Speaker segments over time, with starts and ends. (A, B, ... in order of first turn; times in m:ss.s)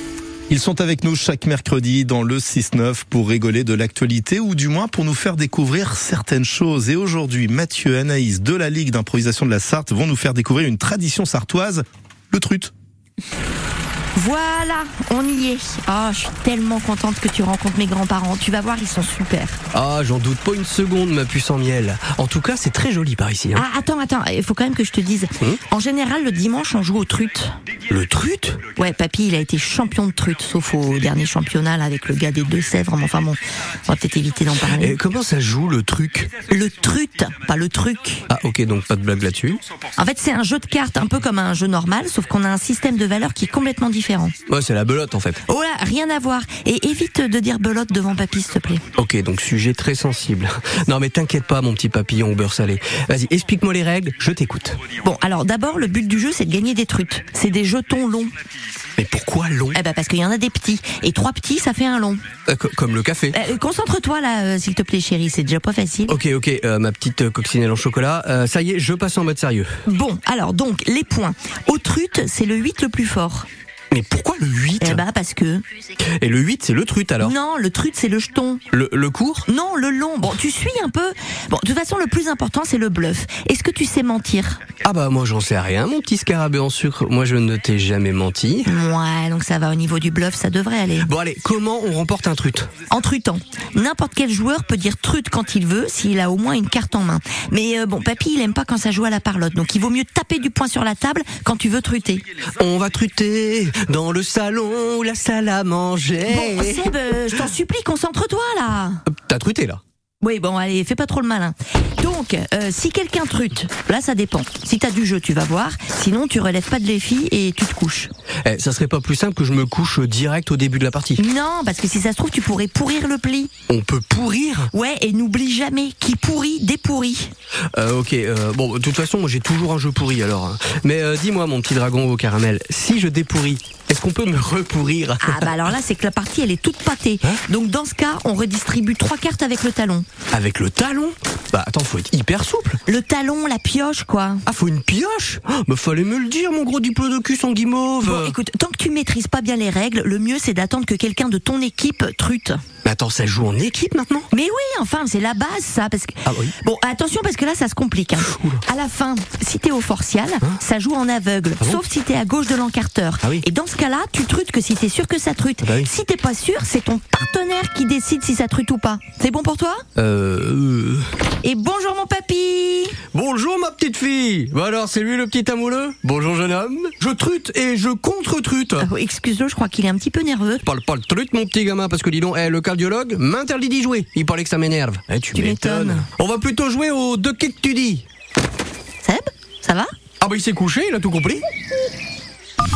0:00.5-0:12.7 A
0:14.2-0:19.6 B
0:19.7-0:23.6 C
0:23.5-0:27.6 B
0:27.9-0:28.6 C
0:28.8-0:35.0 B
0:34.6-0:36.4 C
0:36.4-0:38.3 B
0:38.3-0:39.6 C
0:40.0-0:44.4 B
0:44.5-0:45.4 C
0:45.4-0:48.8 B
0:49.0-0:54.8 C
0:55.0-0:58.3 B
0:59.0-0:59.8 C
0:59.7-1:02.2 B
1:02.5-1:03.4 C
1:03.3-1:06.2 B
1:06.1-1:09.7 C
1:09.8-1:13.5 B
1:13.9-1:15.0 C
1:14.8-1:15.6 B
1:16.1-1:17.4 C
1:17.2-1:18.6 B
1:18.7-1:19.4 C
1:19.5-1:24.6 B
1:24.8-1:28.7 C
1:28.6-1:31.1 B
1:31.0-1:32.7 C
1:32.9-1:42.2 B
1:42.6-1:46.9 C
1:46.3-1:49.0 B
1:49.1-1:49.8 C
1:50.2-1:58.1 B
1:58.4-2:01.2 C
2:01.2-2:03.5 B
2:03.7-2:04.7 C
2:04.7-2:07.3 B
2:07.7-2:15.5 C
2:15.2-2:20.1 B
2:20.3-2:22.8 C
2:22.9-2:24.4 B
2:24.5-2:28.4 C
2:28.0-2:32.6 B
2:32.8-2:34.3 C
2:34.3-2:49.8 B
2:36.3-2:36.5 C
2:38.2-2:38.6 C
2:45.6-2:45.9 C
2:50.0-2:51.1 C
2:51.4-2:53.0 B
2:53.1-2:58.9 C
2:58.8-3:00.6 B
3:00.6-3:08.0 C
3:05.3-3:06.1 B
3:09.0-3:09.9 B
3:10.2-3:11.4 C